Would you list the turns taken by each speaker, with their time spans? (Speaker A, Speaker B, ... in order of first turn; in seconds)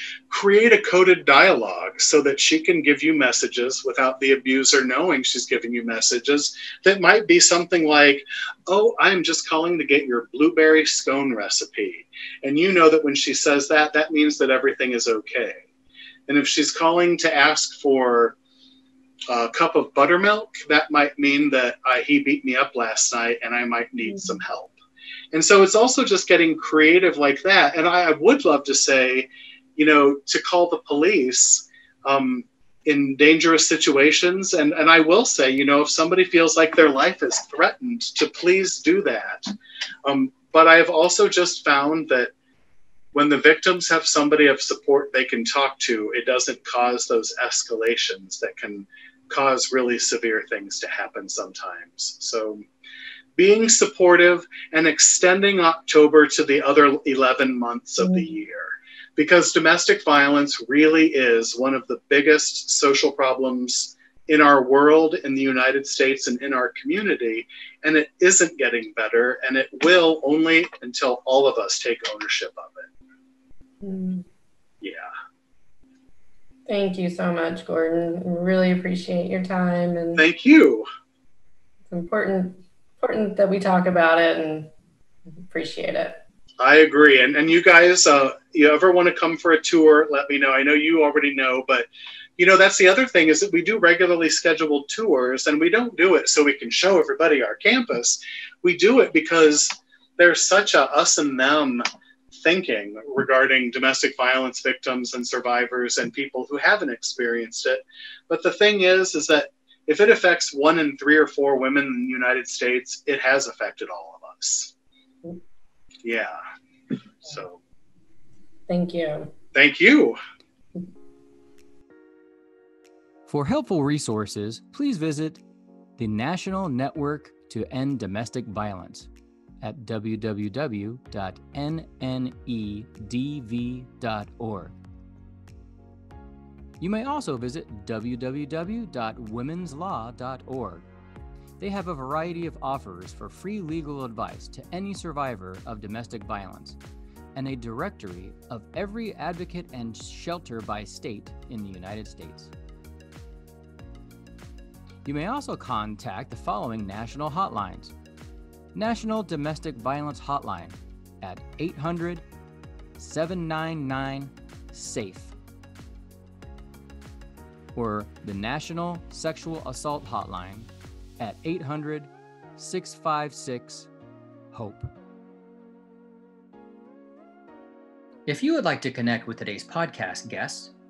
Speaker A: 0.3-15.6, 16.3-18.4, 19.3-24.7, 25.3-39.5, 40.0-42.3, 43.1-52.6, 53.4-72.9, 74.8-75.1, 80.1-80.9, 86.6-114.7, 116.0-116.4, 117.2-117.6, 119.5-120.2
Speaker B: 24.1-24.4, 58.0-58.3, 73.8-74.2, 76.7-80.2, 81.9-84.7, 85.3-86.2, 118.7-119.3
Speaker C: 123.3-125.4, 126.0-129.1, 129.6-134.8, 136.8-140.8, 141.6-146.8, 147.3-152.5, 155.0-157.9, 158.7-162.2, 163.0-165.3, 167.7-173.9, 174.5-174.9, 178.2-180.7